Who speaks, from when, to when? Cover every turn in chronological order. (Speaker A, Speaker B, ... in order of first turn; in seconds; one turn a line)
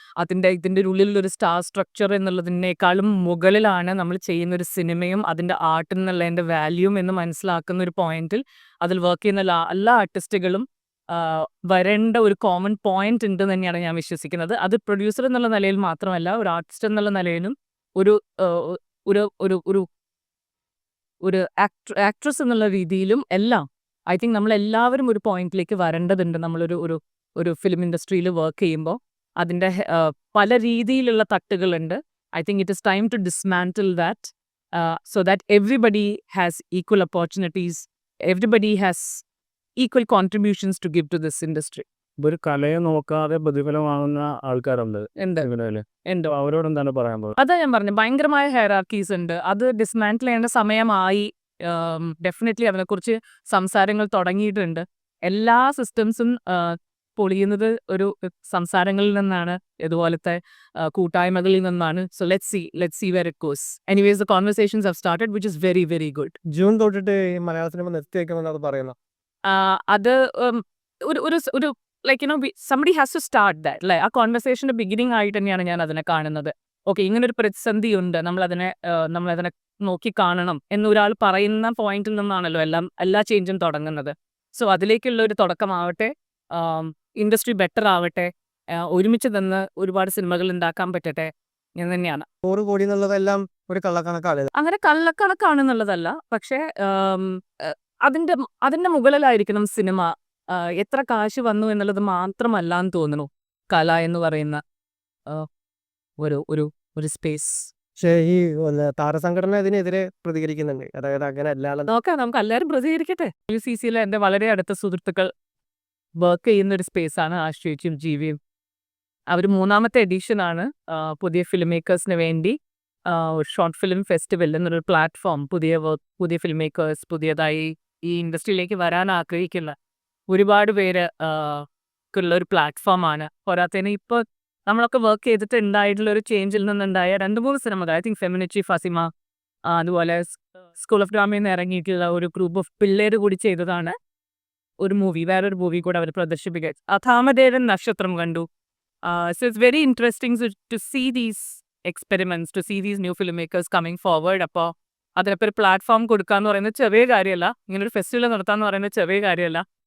Speaker A: 0.2-19.9
Speaker A: 21.2-39.2
Speaker A: 39.8-41.8
Speaker B: 42.2-47.3
Speaker A: 45.2-45.5
Speaker A: 47.4-66.3
Speaker C: 66.5-68.9
Speaker A: 69.5-92.2
Speaker C: 92.4-94.5
Speaker A: 94.5-104.6
Speaker A: 106.2-107.7
Speaker C: 108.0-111.9
Speaker A: 111.9-115.3
Speaker A: 116.2-118.4
Speaker A: 119.3-129.7
Speaker A: 130.3-139.1
Speaker A: 139.7-143.9
Speaker A: 144.8-148.4
Speaker A: 149.0-159.6